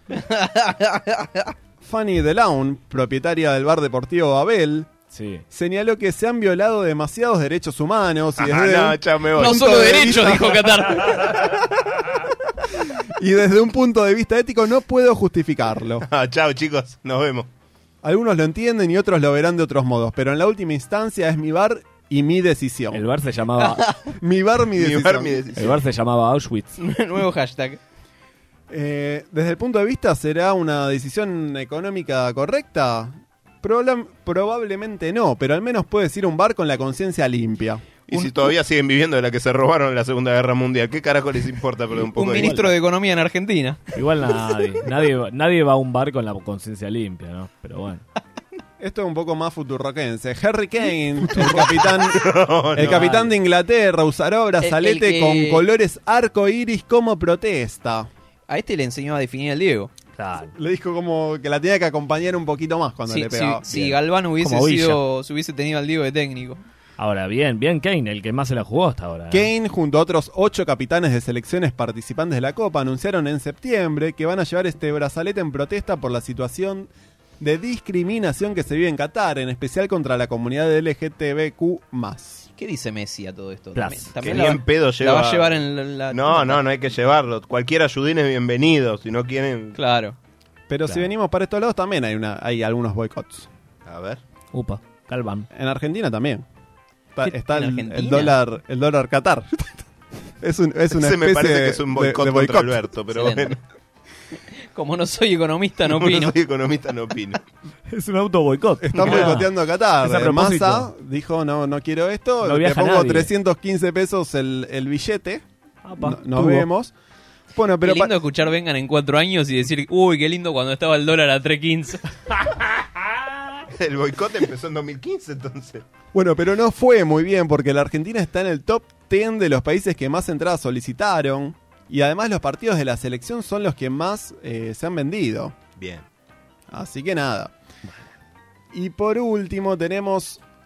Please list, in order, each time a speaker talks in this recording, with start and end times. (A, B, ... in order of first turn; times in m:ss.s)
0:00.1-0:01.5 A
0:01.8-0:04.9 B
0:05.1-0:05.4 C
0:05.5-0:10.8 B
0:08.4-0:10.3 D
0:09.4-0:11.3 A
0:13.2-0:16.0 B
0:16.0-0:17.5 D
0:18.0-0:23.0 B
0:22.9-0:23.9 C
0:23.6-0:24.0 A
0:24.2-0:25.4 B
0:24.8-0:25.8 D
0:25.6-0:26.8 C
0:26.8-0:27.8 A
0:28.7-0:37.8 B
0:38.1-0:42.6 D
0:42.1-0:43.8 A
0:42.3-0:42.7 C
0:43.9-0:48.0 C
0:48.8-0:58.1 B
0:52.1-0:53.0 D
0:52.8-0:53.3 C
0:54.6-0:55.6 A
0:58.5-0:59.9 A
1:00.2-1:00.5 C
1:00.6-1:03.7 B
1:03.1-1:06.6 A
1:03.7-1:05.0 C
1:07.0-1:09.5 C
1:09.3-1:16.9 B
1:17.4-1:22.5 B
1:22.6-1:26.6 A
1:23.7-1:24.5 C
1:24.2-1:29.8 D
1:29.8-1:30.2 A
1:30.7-1:33.5 B
1:33.8-1:34.2 D
1:34.5-1:35.5 C
1:35.5-1:36.4 B
1:37.1-1:39.6 B
1:37.2-1:38.4 A
1:40.4-1:42.8 B
1:40.9-1:43.6 D
1:43.1-1:43.6 A
1:44.7-1:46.4 A
1:45.8-1:47.4 D
1:47.9-1:49.5 C
1:48.8-1:55.4 B
1:48.9-1:49.3 D
1:50.0-1:50.9 C
1:52.4-1:53.3 C
1:55.8-1:56.6 C
1:56.0-1:56.9 B
1:57.5-1:58.1 B
1:57.8-2:02.0 A
2:03.7-2:05.8 D
2:06.1-2:15.6 B
2:15.8-2:16.0 D
2:16.7-2:17.5 B
2:18.7-2:20.4 B